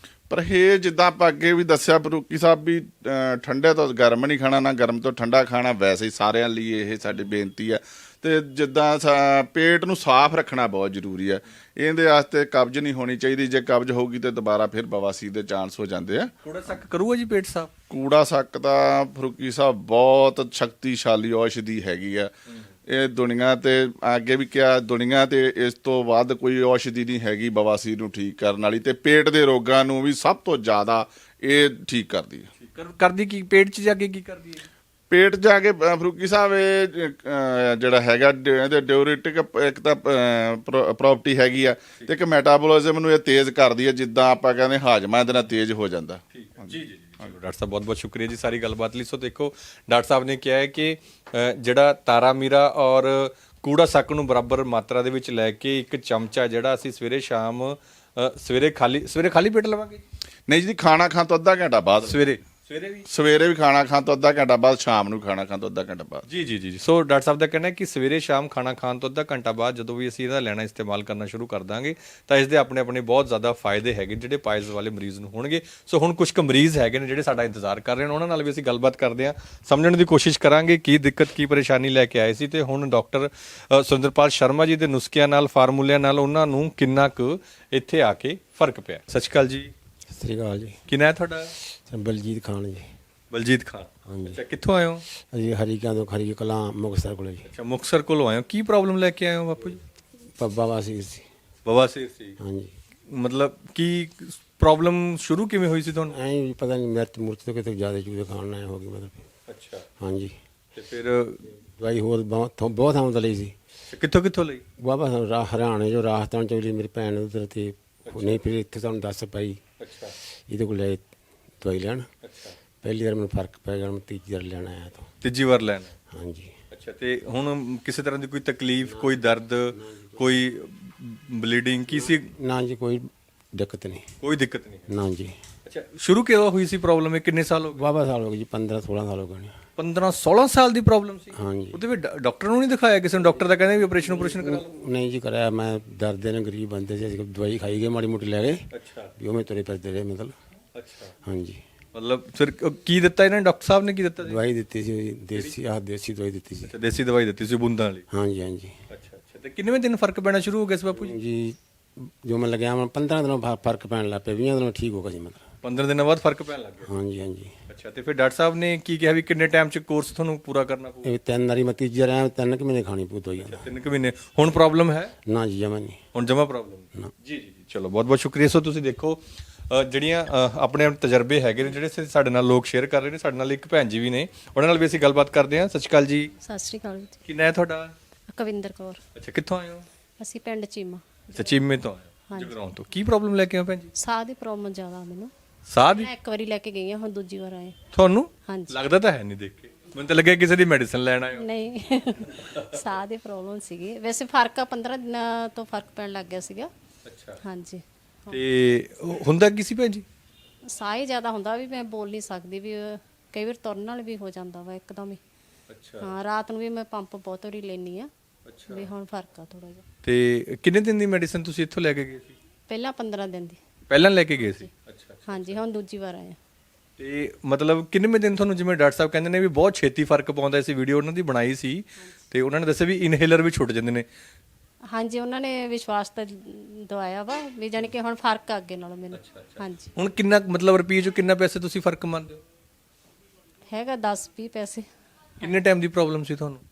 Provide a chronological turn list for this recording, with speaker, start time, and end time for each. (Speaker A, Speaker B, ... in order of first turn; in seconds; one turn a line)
Speaker A: 0.3-16.3
Speaker B: 16.4-17.7
Speaker A: 17.9-22.3
Speaker A: 22.9-32.5
Speaker B: 32.6-34.6
Speaker A: 35.1-46.7
Speaker B: 46.3-60.0
Speaker A: 60.5-62.2
Speaker B: 62.1-63.1
Speaker A: 63.1-66.2
Speaker B: 66.3-89.7
Speaker C: 90.1-90.8
Speaker B: 90.9-91.5
Speaker C: 91.7-92.9
Speaker B: 93.3-95.0
Speaker C: 94.0-94.4
Speaker C: 95.3-97.5
Speaker B: 97.5-99.8
Speaker C: 100.4-101.2
Speaker B: 101.6-102.4
Speaker C: 102.4-102.7
Speaker B: 103.1-106.2
Speaker C: 106.1-109.2
Speaker B: 109.5-109.8
Speaker C: 110.0-110.3
Speaker B: 110.7-111.4
Speaker C: 111.7-113.5
Speaker B: 113.9-114.6
Speaker C: 114.8-119.6
Speaker B: 118.0-118.4
Speaker B: 119.8-120.1
Speaker C: 120.5-121.0
Speaker C: 121.6-122.1
Speaker B: 122.2-122.5
Speaker C: 122.8-125.1
Speaker B: 125.2-125.9
Speaker C: 126.1-126.5
Speaker B: 126.7-132.3
Speaker C: 128.8-130.2
Speaker C: 131.9-134.1
Speaker B: 134.2-134.9
Speaker C: 134.9-135.3
Speaker B: 135.6-137.8
Speaker C: 137.7-139.6
Speaker B: 139.8-144.8
Speaker C: 141.3-141.8
Speaker C: 144.0-150.3
Speaker B: 148.7-149.1
Speaker B: 150.7-151.1
Speaker C: 151.2-151.6
Speaker B: 151.9-154.4
Speaker C: 154.2-156.7
Speaker B: 156.7-158.0
Speaker C: 158.1-158.8
Speaker B: 158.9-161.2
Speaker C: 160.9-165.4
Speaker B: 165.6-166.9
Speaker C: 166.8-167.5
Speaker B: 167.7-171.1
Speaker C: 171.0-173.7
Speaker B: 173.4-175.1
Speaker C: 175.2-176.0
Speaker B: 176.1-186.3
Speaker D: 186.4-187.2
Speaker B: 187.2-187.9
Speaker D: 188.3-189.0
Speaker B: 189.1-189.8
Speaker D: 190.2-191.6
Speaker B: 191.3-193.9
Speaker D: 193.9-195.3
Speaker B: 195.7-196.1
Speaker D: 195.9-197.8
Speaker B: 197.9-201.4
Speaker D: 198.4-198.8
Speaker D: 201.3-206.7
Speaker B: 202.4-202.8
Speaker B: 207.0-207.4
Speaker D: 207.4-208.4
Speaker B: 208.3-210.0
Speaker D: 210.7-215.2
Speaker B: 215.7-216.1
Speaker D: 216.0-218.1
Speaker B: 218.4-218.9
Speaker D: 218.7-219.8
Speaker B: 220.0-222.3
Speaker D: 222.7-223.6
Speaker B: 223.9-225.6
Speaker D: 224.4-224.7
Speaker D: 225.3-226.4
Speaker B: 227.0-234.0
Speaker D: 234.9-239.9
Speaker B: 239.1-242.4
Speaker D: 243.7-244.9
Speaker B: 245.4-246.6